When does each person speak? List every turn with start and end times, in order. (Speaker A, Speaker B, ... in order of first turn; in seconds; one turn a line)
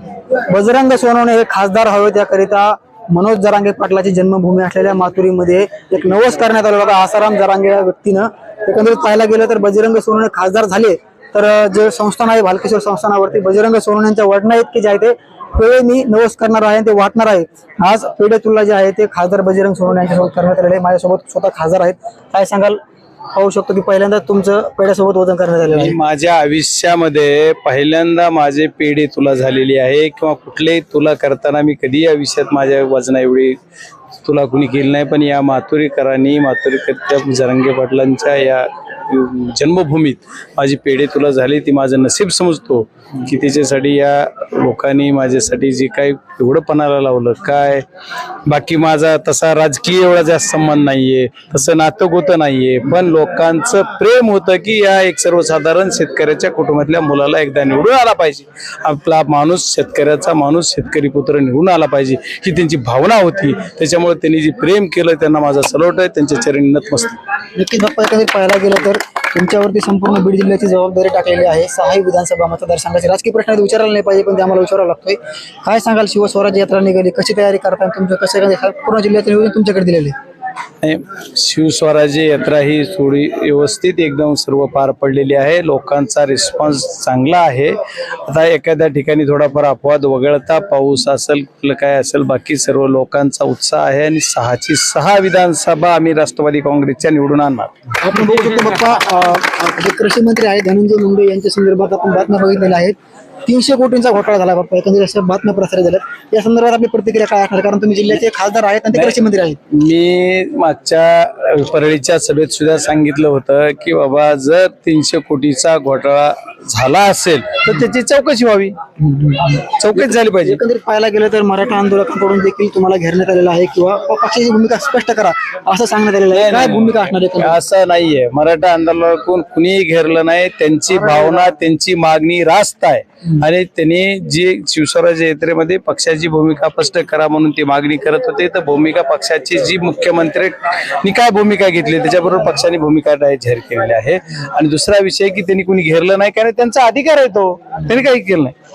Speaker A: 0.4-22.8
Speaker A: 23.3-26.0
Speaker B: 25.8-33.6
Speaker B: 34.2-47.9
Speaker B: 48.5-67.2
Speaker A: 67.6-80.1
Speaker B: 80.8-87.8
Speaker B: 88.3-97.7
Speaker A: 98.0-103.0
Speaker A: 103.5-109.6
Speaker B: 109.7-118.8
Speaker A: 119.0-127.6
Speaker B: 119.5-120.6
Speaker B: 126.3-148.5